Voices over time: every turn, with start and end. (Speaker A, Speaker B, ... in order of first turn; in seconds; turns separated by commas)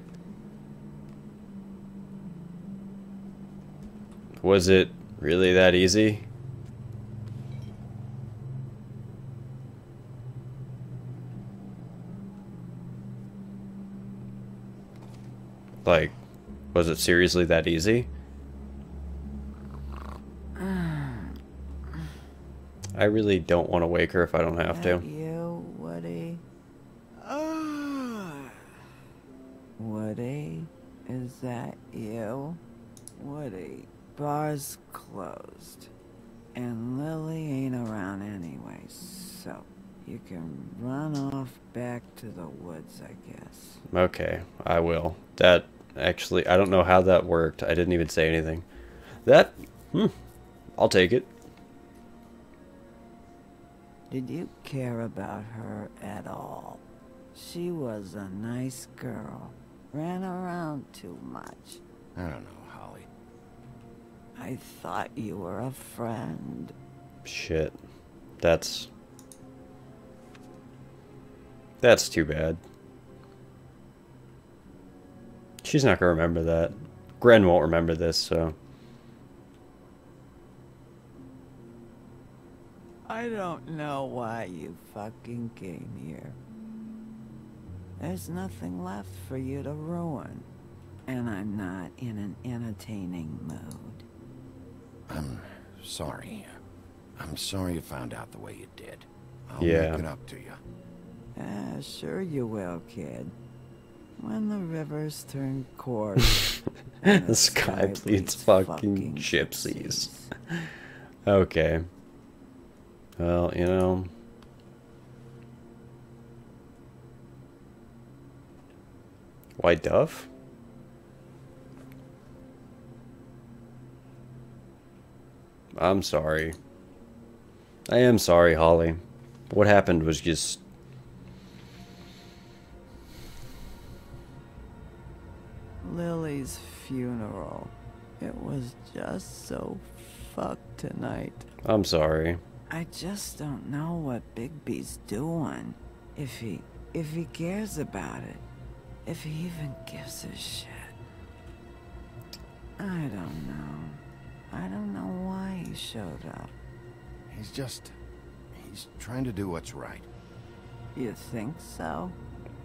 Speaker A: 4.4-6.2, Speaker A: 15.8-16.1, Speaker A: 16.7-18.1, Speaker B: 20.6-21.4, Speaker A: 22.9-25.0, Speaker B: 24.6-26.4, Speaker B: 27.2-28.5, Speaker B: 29.8-32.6, Speaker B: 33.1-35.9, Speaker B: 36.5-43.8, Speaker A: 43.9-48.6, Speaker A: 49.2-50.1, Speaker A: 50.8-51.3, Speaker B: 54.1-56.8, Speaker B: 57.3-61.8, Speaker C: 62.1-63.1, Speaker B: 64.3-66.7, Speaker A: 67.2-67.7, Speaker A: 68.4-68.9, Speaker A: 71.8-72.6, Speaker A: 75.6-78.5, Speaker B: 83.0-86.3, Speaker B: 88.0-90.5, Speaker B: 91.1-94.0, Speaker C: 95.1-96.6, Speaker C: 97.2-100.6, Speaker A: 99.6-100.0, Speaker B: 101.3-103.3, Speaker B: 104.2-110.3, Speaker A: 107.0-110.7, Speaker A: 111.2-111.8, Speaker A: 113.2-114.1, Speaker A: 119.6-120.3, Speaker A: 125.7-126.5, Speaker A: 127.9-130.6, Speaker B: 135.8-141.5, Speaker A: 141.6-142.4, Speaker B: 142.7-148.4, Speaker B: 149.0-150.9, Speaker B: 152.8-156.5, Speaker C: 157.3-157.9, Speaker C: 158.5-160.1, Speaker B: 160.9-162.2